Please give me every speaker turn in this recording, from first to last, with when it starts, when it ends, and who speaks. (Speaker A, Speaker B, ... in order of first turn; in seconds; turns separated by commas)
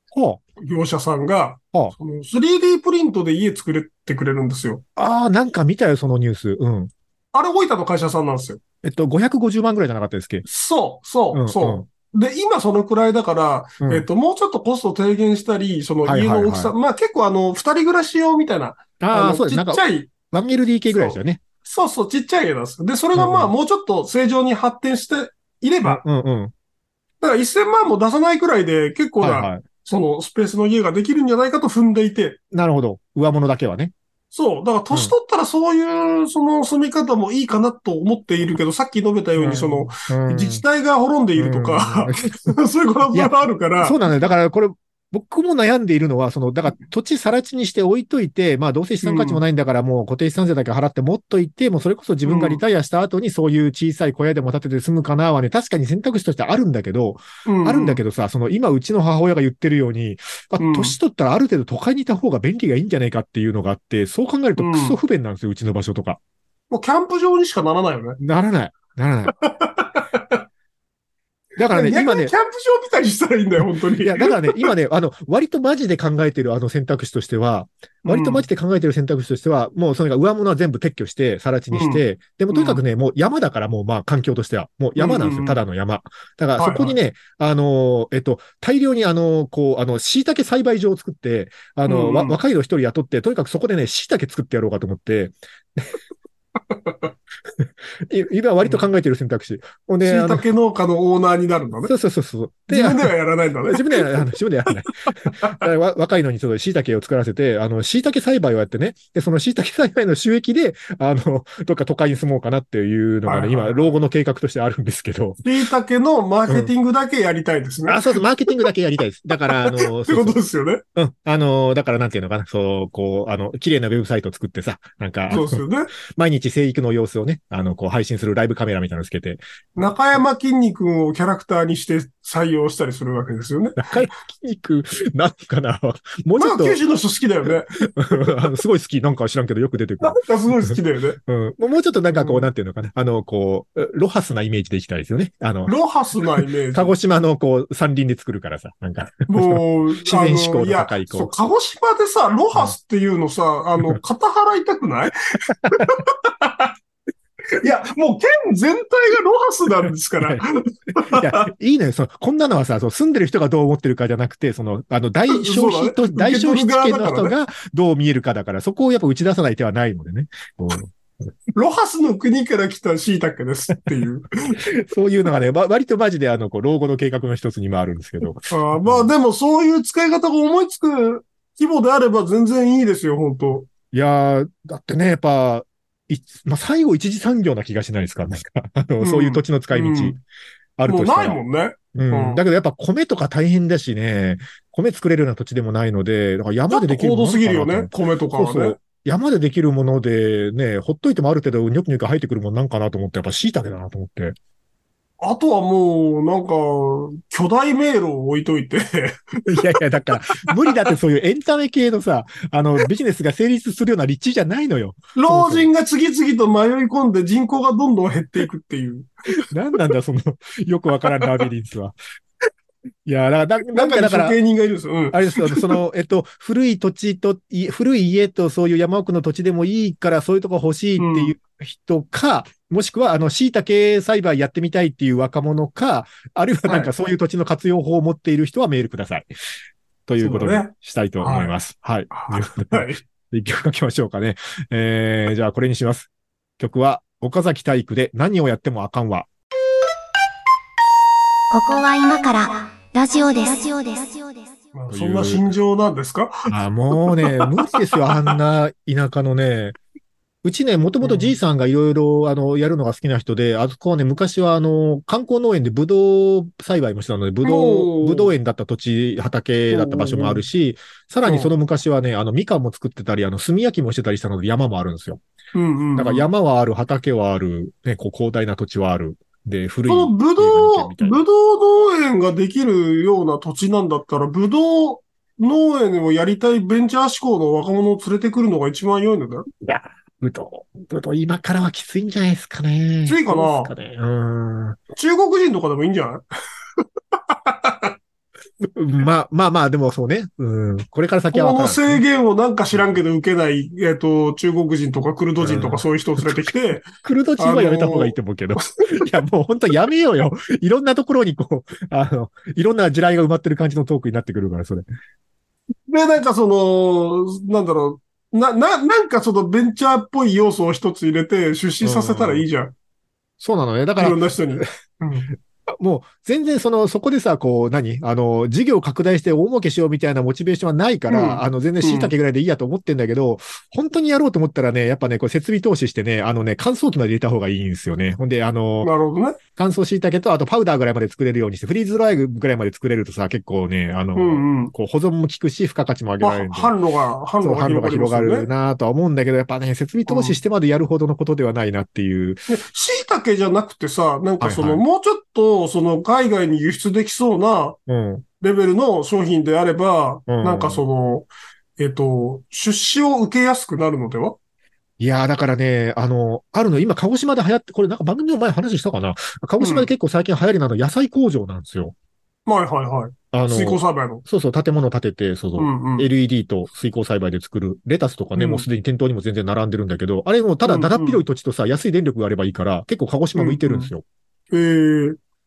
Speaker A: 0.1-0.4, Speaker B: 0.6-4.8, Speaker A: 5.0-6.9, Speaker B: 7.3-8.6, Speaker A: 8.8-10.4, Speaker B: 10.5-20.1, Speaker A: 11.3-11.8, Speaker A: 13.8-14.1, Speaker A: 16.0-16.7, Speaker A: 19.0-21.4, Speaker B: 20.9-26.0, Speaker A: 23.1-23.5, Speaker A: 25.8-26.5, Speaker B: 27.2-32.4, Speaker A: 29.2-29.6, Speaker A: 32.5-33.9, Speaker B: 34.3-44.0, Speaker A: 39.4-40.6, Speaker A: 41.4-42.5, Speaker A: 43.1-66.2, Speaker B: 49.0-49.4, Speaker B: 52.2-52.6, Speaker B: 57.5-58.0, Speaker B: 60.6-61.0, Speaker B: 64.6-65.0, Speaker B: 66.7-68.2, Speaker A: 68.2-69.3, Speaker B: 69.4-70.4, Speaker A: 71.6-72.3, Speaker B: 71.7-74.7, Speaker A: 73.6-95.9, Speaker B: 78.0-78.5, Speaker B: 81.7-82.8, Speaker B: 85.0-85.6, Speaker B: 86.6-87.0, Speaker B: 91.8-92.4, Speaker B: 96.7-97.1, Speaker A: 97.6-100.5, Speaker B: 100.0-101.9, Speaker A: 101.8-103.1, Speaker B: 102.7-104.2, Speaker A: 103.6-115.4, Speaker B: 113.2-113.9, Speaker B: 115.4-118.2, Speaker A: 117.9-120.4, Speaker B: 119.5-120.8, Speaker A: 121.0-129.4, Speaker B: 125.3-125.9, Speaker B: 129.8-133.9, Speaker A: 133.8-136.8, Speaker B: 136.4-137.8, Speaker A: 137.8-145.7, Speaker B: 140.0-141.2, Speaker B: 142.1-142.5, Speaker B: 145.7-146.9, Speaker A: 146.3-151.3, Speaker B: 149.3-156.7, Speaker B: 157.6-161.5, Speaker A: 159.9-160.4, Speaker A: 161.0-170.9, Speaker B: 165.3-167.3, Speaker B: 171.6-174.6, Speaker A: 174.7-179.1, Speaker B: 178.5-183.7, Speaker A: 183.9-190.2, Speaker B: 189.0-190.2, Speaker A: 190.8-191.4, Speaker B: 190.9-192.4, Speaker A: 191.9-204.3, Speaker B: 196.7-198.8, Speaker B: 205.2-209.7, Speaker A: 209.5-215.7, Speaker B: 215.1-219.1, Speaker A: 219.5-221.9, Speaker A: 223.0-224.4, Speaker B: 223.7-225.7, Speaker A: 225.1-239.3, Speaker B: 231.0-231.3, Speaker A: 240.1-249.3, Speaker B: 240.2-241.6, Speaker B: 242.1-243.0, Speaker C: 251.5-254.6, Speaker B: 254.7-258.3, Speaker A: 254.9-255.5, Speaker A: 256.5-259.8, Speaker A: 260.4-275.2, Speaker B: 261.0-261.4, Speaker B: 267.4-268.3, Speaker B: 269.7-270.4, Speaker B: 271.2-271.5, Speaker B: 275.5-276.3, Speaker A: 275.9-281.2, Speaker B: 279.9-289.4, Speaker A: 289.6-294.8, Speaker B: 293.1-293.7, Speaker B: 294.9-296.2, Speaker B: 297.3-297.9, Speaker A: 298.6-302.0, Speaker B: 301.3-306.9, Speaker A: 305.4-314.9, Speaker B: 307.4-309.1, Speaker B: 315.9-322.7, Speaker A: 321.8-322.4, Speaker A: 323.4-324.7, Speaker B: 324.0-325.3, Speaker A: 325.8-338.9, Speaker B: 331.1-332.1, Speaker B: 338.8-339.4, Speaker A: 339.6-346.7, Speaker B: 344.1-344.7, Speaker B: 346.2-348.5, Speaker A: 347.4-352.6, Speaker B: 350.1-350.4, Speaker B: 352.5-357.8, Speaker A: 354.4-354.8, Speaker A: 357.9-358.2, Speaker B: 358.4-364.4, Speaker A: 360.3-360.8, Speaker A: 365.0-371.9, Speaker B: 369.6-369.9, Speaker B: 372.4-374.2, Speaker A: 373.3-384.0, Speaker B: 375.6-376.1, Speaker B: 378.4-378.6, Speaker B: 380.6-381.2, Speaker B: 383.4-383.9, Speaker B: 384.5-385.2